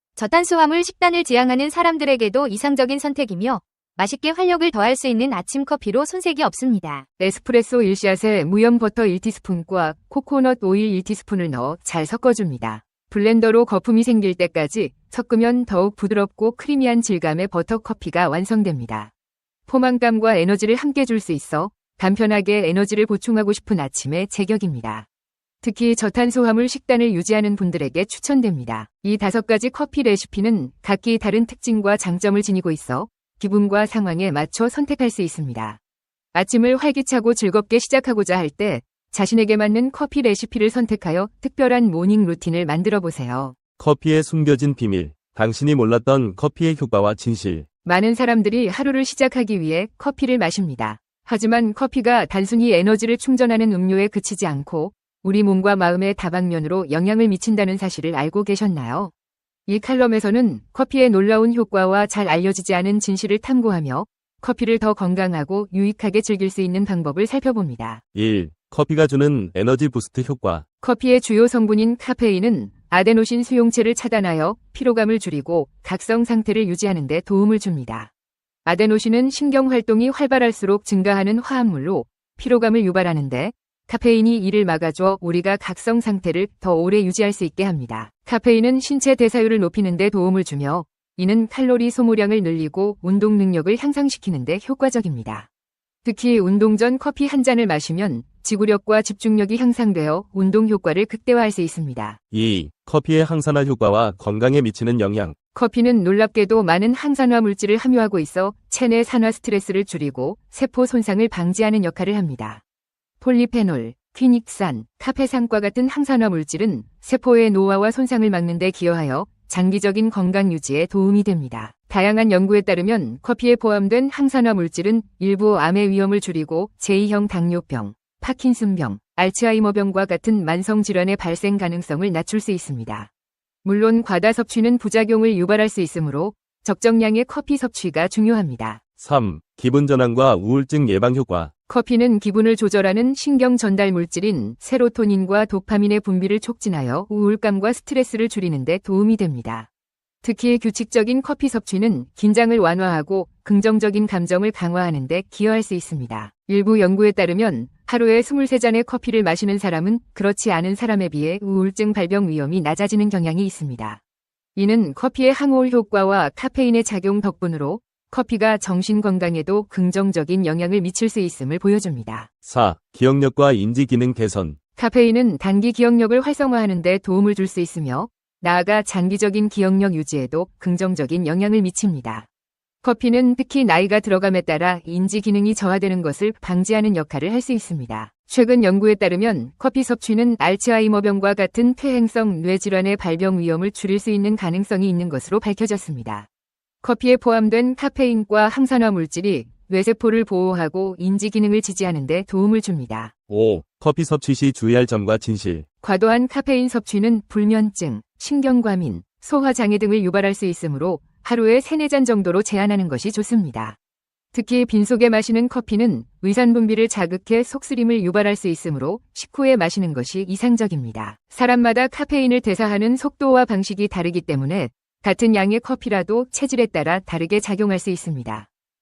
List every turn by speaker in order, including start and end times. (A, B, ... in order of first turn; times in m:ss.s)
0:00.2-0:07.0 A
0:07.2-0:19.1 B
0:19.7-0:25.0 B
0:25.6-0:35.8 B
0:36.3-0:43.6 B
0:43.8-0:47.6 C
0:47.8-0:59.1 B
0:59.7-1:08.0 B
1:08.1-1:10.6 C
1:10.8-1:18.1 B
1:18.6-1:35.5 B
1:36.0-1:42.2 B
1:42.3-1:45.3 C
1:45.5-1:52.6 B
1:53.2-2:13.1 B
2:13.6-2:18.8 B
2:19.0-2:21.5 C
2:21.7-2:29.7 B
2:30.2-2:44.0 B
2:44.6-2:52.3 B
2:52.4-2:54.6 C
2:54.8-3:02.2 B
3:02.8-3:16.3 B
3:16.8-3:23.1 B
3:23.3-3:25.6 C
3:25.8-3:33.8 B
3:34.3-3:48.5 B